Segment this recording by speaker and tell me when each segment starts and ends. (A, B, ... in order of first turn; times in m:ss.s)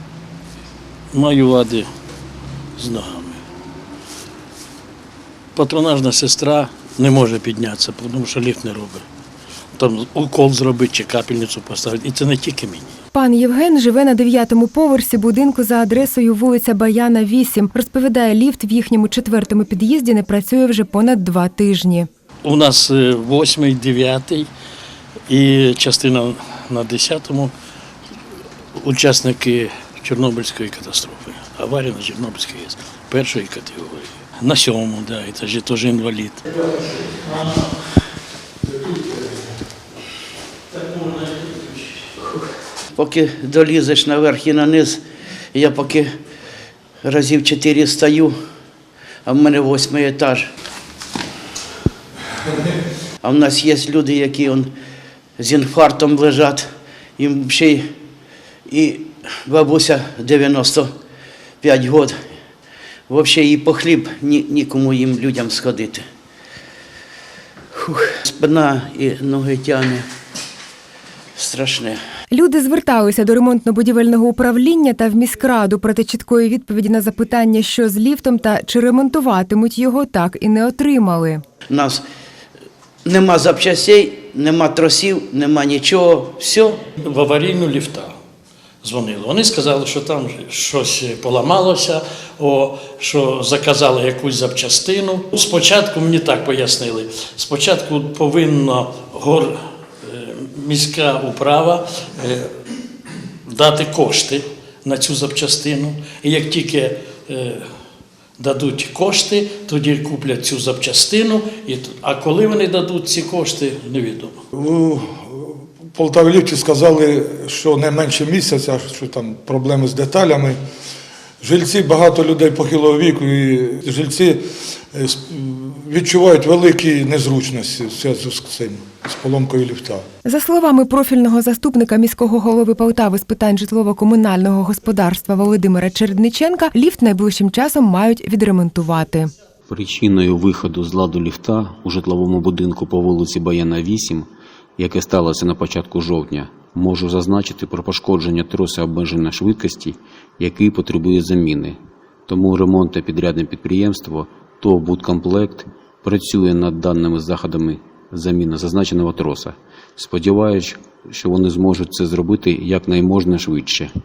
0:01.1-0:01.9 A
0:02.8-0:03.4 A
0:05.6-0:09.0 A
0:09.8-0:13.0 A
0:13.1-0:22.1 B
0:22.4-0:24.5 A
0:25.3-0:27.5 A
0:28.8-0:37.7 A
0:38.7-0:39.2 A
0:40.7-0:42.1 A
0:43.0-0:45.0 C
0:45.5-0:46.1 C
0:47.0-0:48.3 C
0:49.3-0:50.5 C
0:53.2-0:54.7 C
0:55.4-0:56.6 C
0:57.2-0:57.8 C
0:58.7-1:00.9 C
1:01.6-1:02.1 C
1:03.1-1:06.0 C
1:07.8-1:10.1 C
1:11.4-1:12.0 C
1:12.3-1:21.4 B
1:21.7-1:22.0 C
1:23.0-1:26.8 C
1:27.0-1:28.1 A
1:28.8-1:42.5 A
1:43.5-1:47.6 A
1:48.4-1:54.4 A
1:54.5-2:00.6 D
2:01.4-2:10.0 D
2:10.2-2:19.3 B
2:19.7-2:24.3 E
2:24.8-2:43.9 E